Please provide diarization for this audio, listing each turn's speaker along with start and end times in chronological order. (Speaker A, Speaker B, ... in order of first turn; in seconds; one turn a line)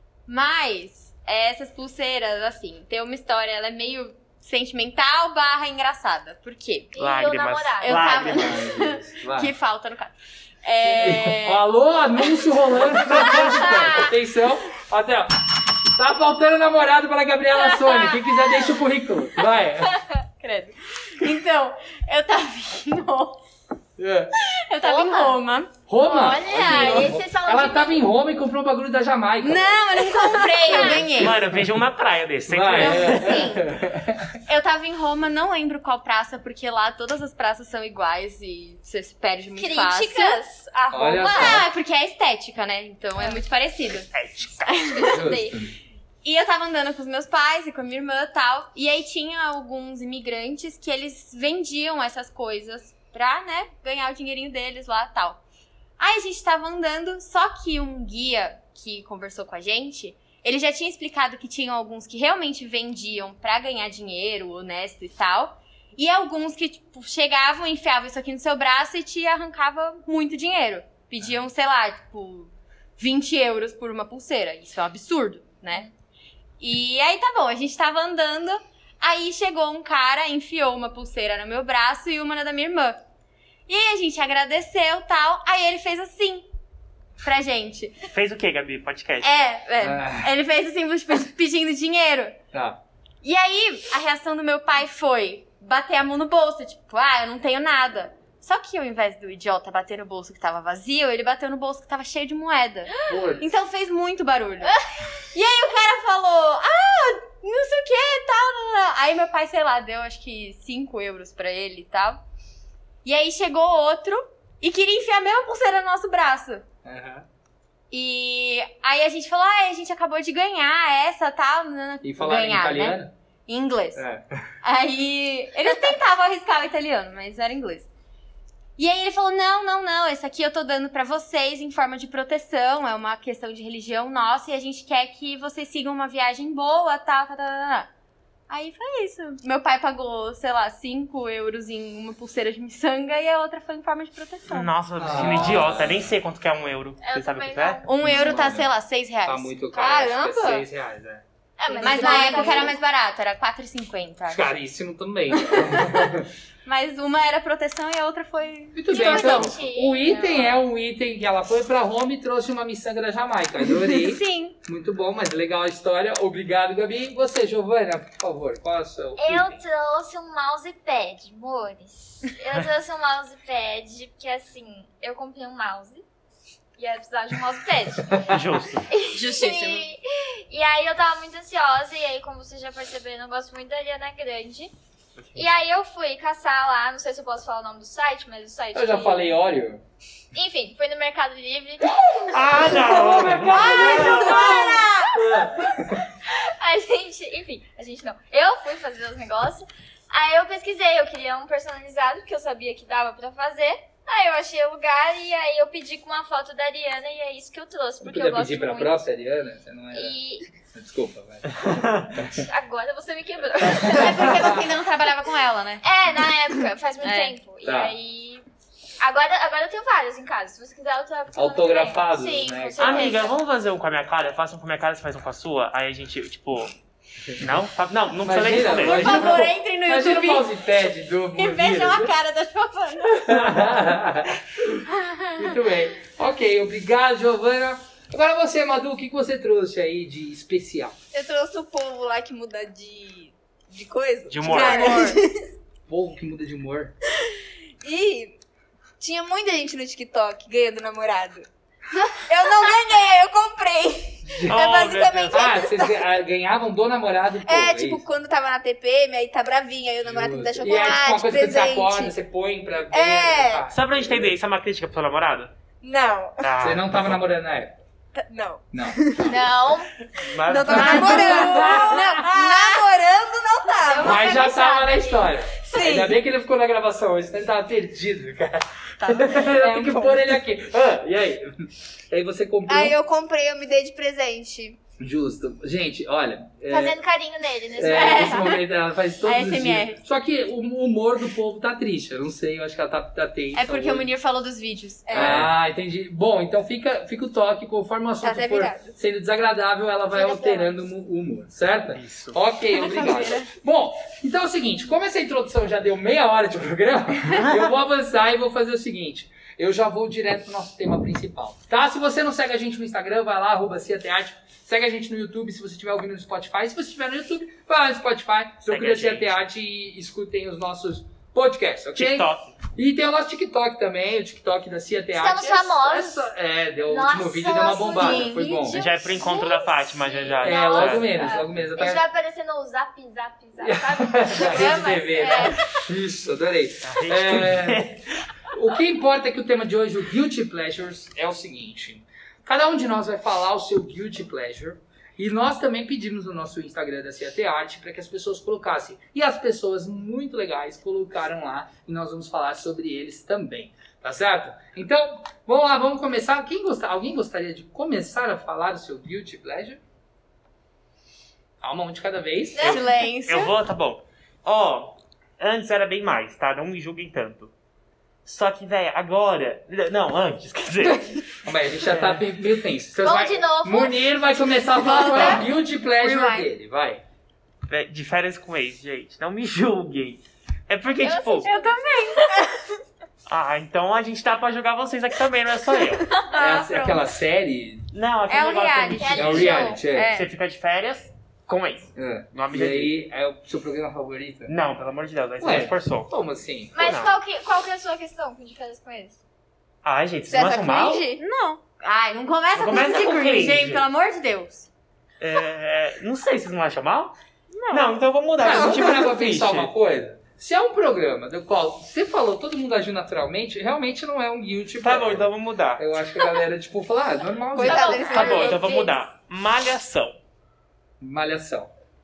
Speaker A: 0.3-6.9
Speaker B: 6.9-8.4
Speaker C: 7.0-8.6
Speaker A: 7.8-11.6
Speaker D: 8.2-9.5
Speaker D: 10.8-20.0
Speaker A: 13.1-14.1
Speaker A: 17.8-18.1
Speaker A: 20.4-23.4
Speaker D: 24.0-24.3
Speaker A: 24.4-25.7
Speaker B: 24.8-25.4
Speaker D: 25.9-29.8
Speaker B: 26.0-28.0
Speaker A: 29.4-31.4
Speaker B: 30.1-31.1
Speaker D: 30.7-31.7
Speaker C: 30.9-33.5
Speaker D: 32.5-34.4
Speaker A: 32.8-33.6
Speaker A: 34.5-40.4
Speaker B: 39.6-41.6
Speaker D: 40.9-41.6
Speaker A: 41.2-44.1
Speaker C: 44.1-44.9
Speaker A: 44.6-45.1
Speaker B: 44.9-45.6
Speaker D: 45.1-45.8
Speaker A: 46.2-55.4
Speaker A: 56.0-75.9
Speaker A: 76.6-83.0
Speaker A: 83.7-86.5
Speaker A: 87.2-88.0
Speaker C: 88.1-89.4
Speaker A: 89.2-92.3
Speaker D: 89.8-90.3
Speaker D: 92.5-92.8
Speaker A: 93.2-104.8
Speaker D: 103.0-103.5
Speaker A: 105.3-112.2
Speaker A: 113.0-116.6
Speaker D: 116.8-117.2
Speaker A: 117.9-124.0
Speaker D: 122.0-123.1
Speaker D: 123.9-124.4
Speaker A: 124.6-127.9
Speaker A: 128.8-137.9
Speaker A: 138.5-144.7
Speaker C: 144.5-147.8
Speaker D: 144.9-146.1
Speaker B: 147.0-148.2
Speaker A: 147.8-149.5
Speaker D: 148.0-148.7
Speaker D: 149.2-151.2
Speaker E: 149.7-150.6
Speaker B: 151.6-152.8
Speaker E: 151.7-152.7
Speaker A: 151.8-154.4
Speaker D: 154.3-156.3
Speaker A: 156.6-159.5
Speaker D: 158.7-169.6
Speaker B: 158.9-160.6
Speaker A: 163.9-164.5
Speaker B: 169.2-176.0
Speaker B: 176.8-178.2
Speaker C: 178.3-178.8
Speaker B: 178.9-184.7
Speaker A: 179.1-179.8
Speaker C: 185.2-185.4
Speaker B: 185.3-189.3
Speaker D: 188.7-189.8
Speaker B: 190.3-192.8
Speaker C: 192.3-194.6
Speaker D: 192.6-196.0
Speaker B: 193.5-195.1
Speaker E: 193.5-194.9
Speaker B: 196.2-209.0
Speaker D: 208.0-210.1
Speaker B: 209.9-210.4
Speaker D: 210.7-211.6
Speaker C: 211.6-212.1
Speaker B: 212.1-214.4
Speaker D: 212.2-212.4
Speaker D: 213.9-214.6
Speaker A: 213.9-215.8
Speaker B: 215.8-218.4
Speaker A: 217.0-217.3
Speaker D: 217.6-217.9
Speaker B: 219.0-223.3
Speaker D: 221.3-223.1
Speaker C: 222.8-226.7
Speaker C: 227.4-229.5
Speaker D: 228.2-232.1
Speaker A: 228.8-230.5
Speaker A: 231.3-233.5
Speaker D: 233.2-240.9
Speaker E: 241.1-245.3
Speaker C: 244.3-245.0
Speaker D: 244.4-244.9
Speaker A: 244.5-245.2
Speaker D: 245.9-246.9
Speaker E: 247.8-248.4
Speaker E: 249.0-251.5
Speaker E: 252.0-256.0
Speaker D: 254.2-254.6
Speaker C: 254.5-255.5
Speaker D: 255.3-258.0
Speaker E: 257.4-262.1
Speaker D: 260.0-264.4
Speaker E: 262.9-263.6
Speaker C: 263.7-265.5
Speaker E: 265.8-266.5
Speaker C: 266.4-267.2
Speaker D: 266.6-267.8
Speaker E: 268.1-269.5
Speaker D: 268.7-269.0
Speaker B: 269.3-269.9
Speaker C: 270.2-271.6
Speaker E: 270.4-274.5
Speaker D: 270.7-272.3
Speaker A: 270.7-272.8
Speaker B: 273.7-275.3
Speaker D: 274.0-282.9
Speaker E: 275.6-276.2
Speaker E: 279.4-280.4
Speaker E: 282.7-284.8
Speaker D: 285.0-287.0
Speaker B: 286.7-288.5
Speaker D: 287.8-294.1
Speaker A: 287.9-288.6
Speaker A: 289.2-290.0
Speaker A: 293.5-295.4
Speaker D: 295.1-328.8
Speaker C: 295.1-295.5
Speaker E: 298.2-298.9
Speaker C: 301.9-302.4
Speaker A: 302.8-303.4
Speaker E: 302.8-303.3
Speaker C: 307.3-307.7
Speaker C: 318.6-319.4
Speaker C: 321.9-322.6
Speaker B: 325.1-326.3
Speaker B: 326.9-335.5
Speaker E: 327.9-328.6
Speaker A: 328.0-328.4
Speaker C: 328.7-331.1
Speaker D: 330.4-332.0
Speaker D: 333.6-337.9
Speaker E: 334.5-335.6
Speaker C: 336.8-338.0
Speaker D: 338.5-359.8
Speaker D: 361.6-362.8
Speaker A: 362.6-363.5
Speaker C: 362.6-367.5
Speaker C: 368.2-371.2
Speaker D: 371.4-377.0
Speaker C: 371.8-372.2
Speaker B: 373.0-374.1
Speaker A: 374.8-375.4
Speaker A: 376.0-376.5
Speaker C: 377.7-381.5
Speaker B: 381.0-382.3
Speaker A: 381.4-382.4
Speaker C: 383.3-386.2
Speaker A: 386.2-387.0
Speaker D: 386.4-387.9
Speaker C: 387.9-392.9
Speaker A: 388.3-390.3
Speaker B: 389.0-389.8
Speaker D: 389.1-390.1
Speaker D: 391.9-394.5
Speaker C: 394.5-396.1
Speaker D: 395.4-396.7
Speaker B: 396.7-399.2
Speaker C: 396.8-397.1
Speaker C: 399.8-401.0
Speaker E: 400.3-401.2
Speaker A: 401.1-404.7
Speaker C: 402.5-403.9
Speaker C: 405.2-407.1
Speaker A: 407.5-407.9
Speaker C: 407.7-409.7
Speaker D: 408.4-418.3
Speaker C: 414.8-415.9
Speaker E: 417.5-418.7
Speaker B: 417.6-419.0
Speaker C: 417.9-420.2
Speaker D: 421.0-421.7